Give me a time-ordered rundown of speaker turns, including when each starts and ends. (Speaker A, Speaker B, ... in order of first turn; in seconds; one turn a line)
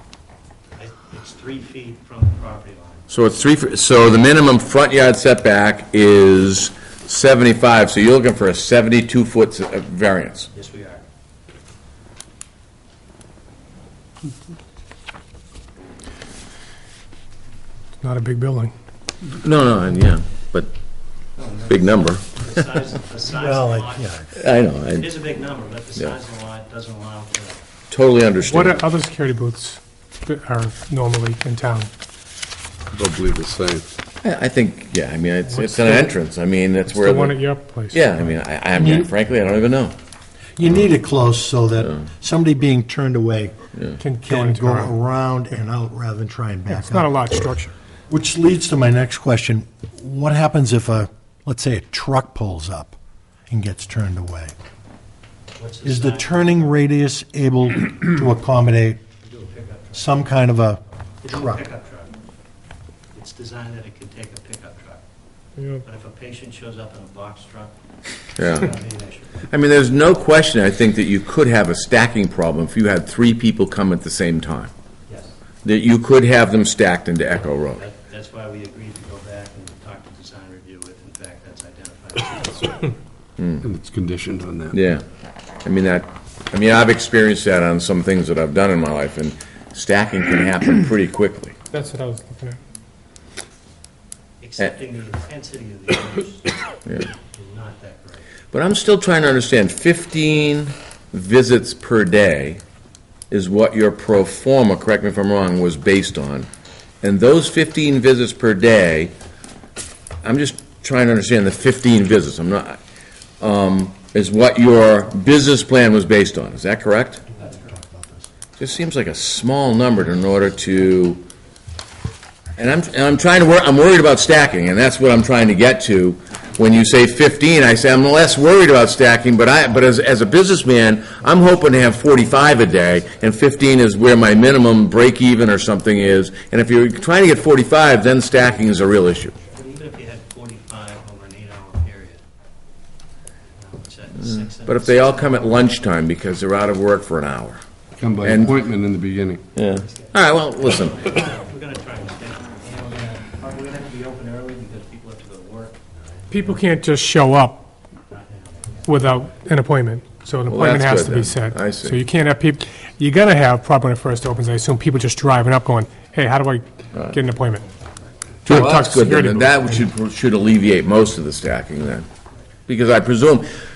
Speaker A: 0.8-3.1
Speaker B: 3.1-10.5
Speaker A: 10.5-11.0
Speaker C: 18.0-18.7
Speaker B: 19.4-20.7
Speaker A: 21.4-24.1
Speaker B: 21.7-22.4
Speaker D: 23.4-24.3
Speaker B: 24.4-25.1
Speaker A: 24.9-27.6
Speaker B: 27.9-28.9
Speaker C: 28.4-31.9
Speaker E: 32.9-33.9
Speaker B: 34.2-40.0
Speaker C: 35.5-36.1
Speaker C: 36.9-38.2
Speaker D: 38.8-39.1
Speaker D: 40.6-43.6
Speaker C: 44.0-44.9
Speaker D: 44.2-47.1
Speaker C: 46.7-47.7
Speaker D: 48.1-53.0
Speaker D: 53.5-54.5
Speaker A: 55.6-56.5
Speaker D: 55.9-59.0
Speaker A: 59.2-60.1
Speaker D: 59.9-61.6
Speaker A: 61.2-62.2
Speaker A: 63.1-65.0
Speaker C: 65.6-65.8
Speaker A: 65.8-67.7
Speaker A: 68.4-69.5
Speaker B: 68.4-68.7
Speaker B: 69.5-74.7
Speaker A: 75.1-75.3
Speaker B: 75.6-77.8
Speaker A: 77.8-83.0
Speaker B: 83.4-83.6
Speaker E: 83.6-84.8
Speaker B: 84.7-85.0
Speaker B: 85.6-91.6
Speaker C: 91.7-92.6
Speaker A: 94.4-96.5
Speaker A: 97.1-98.3
Speaker B: 98.5-102.6
Speaker B: 103.3-106.5
Speaker B: 107.0-109.1
Speaker B: 110.2-112.8
Speaker B: 113.4-117.2
Speaker D: 117.3-118.3
Speaker B: 118.6-121.2
Speaker B: 122.6-139.3
Speaker A: 139.5-142.2
Speaker A: 143.5-145.9
Speaker B: 144.2-147.6
Speaker E: 148.0-149.4
Speaker B: 148.2-148.6
Speaker B: 149.6-151.1
Speaker A: 149.7-156.3
Speaker C: 156.3-157.7
Speaker A: 158.1-159.0
Speaker C: 158.8-167.7
Speaker B: 160.5-162.0
Speaker C: 168.5-169.9
Speaker B: 168.5-172.1
Speaker B: 172.7-173.5